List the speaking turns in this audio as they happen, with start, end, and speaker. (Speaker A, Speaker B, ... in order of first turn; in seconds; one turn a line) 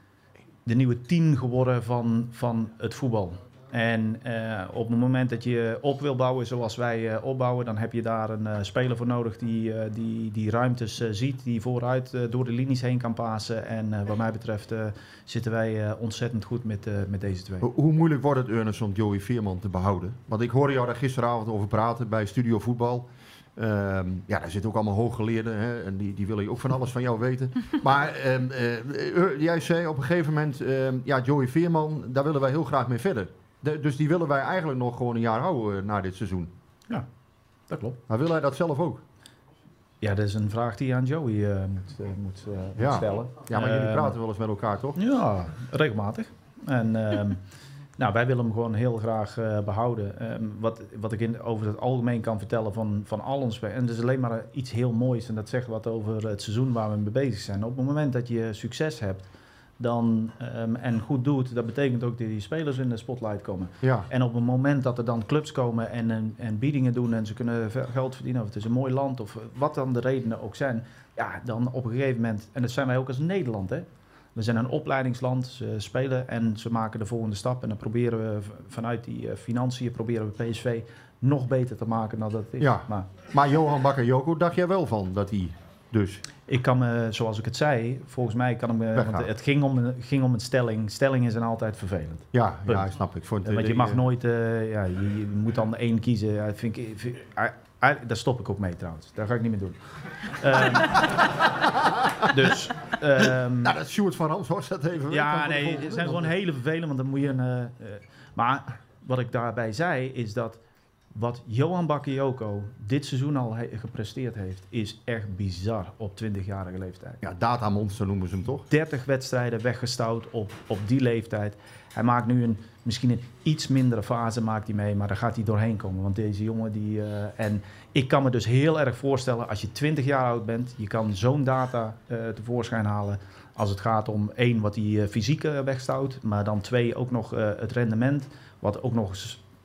Speaker A: 0.6-17.6
Speaker B: 17.6-36.5
Speaker A: 37.7-38.0
Speaker B: 38.1-39.0
Speaker A: 40.0-44.2
Speaker B: 42.8-45.0
Speaker A: 45.0-47.4
Speaker A: 48.0-59.3
Speaker A: 59.8-83.1
Speaker B: 82.6-86.2
Speaker A: 86.5-92.9
Speaker B: 88.9-89.3
Speaker B: 92.3-94.0
Speaker A: 93.4-101.1
Speaker B: 101.0-101.2
Speaker B: 101.8-102.1
Speaker A: 102.3-103.8
Speaker B: 103.6-106.3
Speaker A: 105.1-110.6
Speaker A: 111.1-117.2
Speaker B: 117.2-118.7
Speaker A: 118.7-139.4